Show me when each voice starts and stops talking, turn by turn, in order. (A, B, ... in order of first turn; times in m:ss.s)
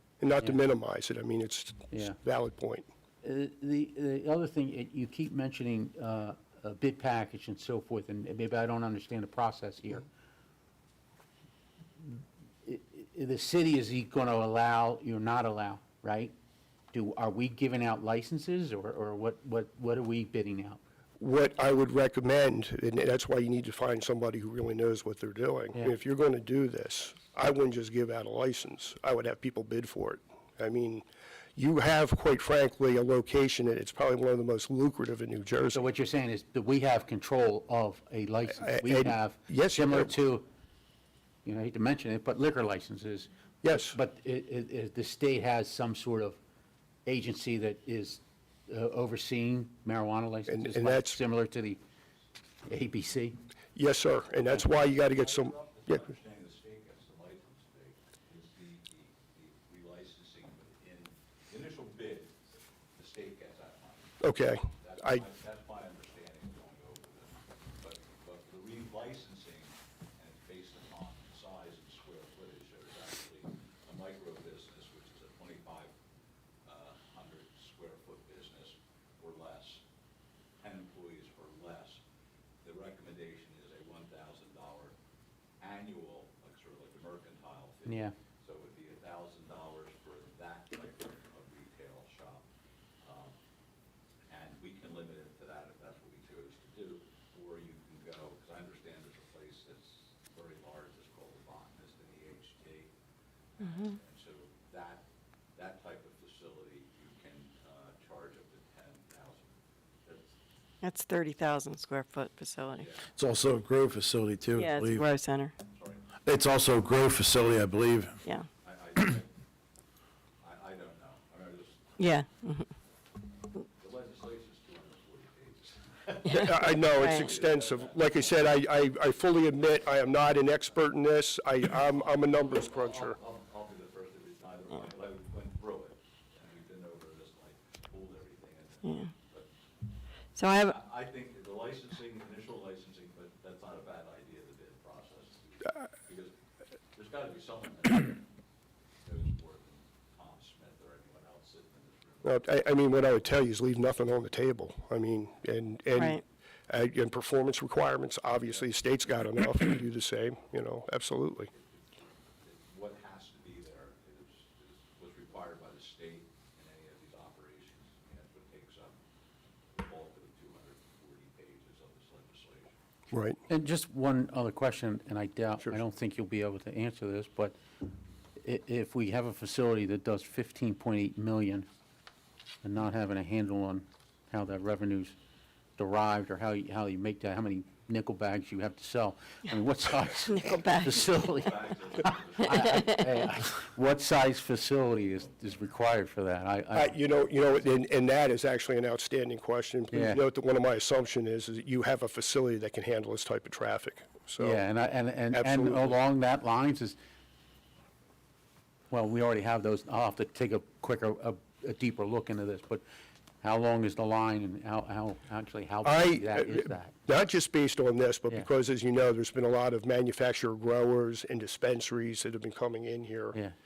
0:00.2-0:02.9 A
0:01.9-0:02.2 B
0:03.2-0:10.1 B
0:12.0-0:16.3 B
0:16.9-0:20.8 B
0:21.2-0:31.0 A
0:31.6-0:35.8 A
0:35.7-0:40.5 B
0:38.6-0:40.1 A
0:41.4-0:46.4 B
0:43.6-0:44.0 A
0:47.1-0:51.8 B
0:50.5-0:51.2 A
0:52.7-0:53.4 B
0:53.8-0:56.1 A
0:54.6-1:02.4 C
1:03.0-1:15.9 C
1:04.2-1:05.2 A
1:16.7-1:19.8 C
1:20.6-1:22.0 C
1:22.6-1:24.9 C
1:25.6-1:32.4 C
1:27.9-1:28.1 B
1:33.0-1:33.4 C
1:34.3-1:42.9 C
1:43.6-1:49.5 C
1:43.6-1:43.9 D
1:50.0-1:50.4 C
1:50.8-1:52.9 D
1:52.8-1:53.1 C
1:53.1-1:55.1 E
1:54.6-1:55.5 D
1:55.7-1:56.1 C
1:56.2-1:58.2 E
1:58.6-1:59.3 C
2:00.4-2:02.0 C
2:02.0-2:02.7 D
2:03.8-2:08.6 C
2:06.3-2:07.3 D
2:06.3-2:13.2 A
2:09.8-2:10.8 C
2:11.7-2:19.5 C
2:18.8-2:19.1 D
2:20.4-2:20.8 D
2:20.5-2:26.4 C
2:26.9-2:28.2 C
2:29.0-2:32.4 C
2:32.2-2:41.5 A
2:36.0-2:36.2 D
2:41.5-2:49.0 C
2:49.7-2:52.7 C
2:53.1-2:53.4 A
2:53.5-2:57.6 B
2:58.4-3:01.7 B
3:02.6-3:05.2 B
3:05.8-3:17.0 B
3:10.3-3:11.3 D
3:11.0-3:13.1 C
3:12.5-3:13.2 D
3:16.8-3:24.6 A
3:19.9-3:20.2 B
3:24.4-3:27.0 B
3:25.3-3:26.0 A
3:28.9-3:32.8 B
3:33.4-3:37.0 B
3:35.8-3:43.4 A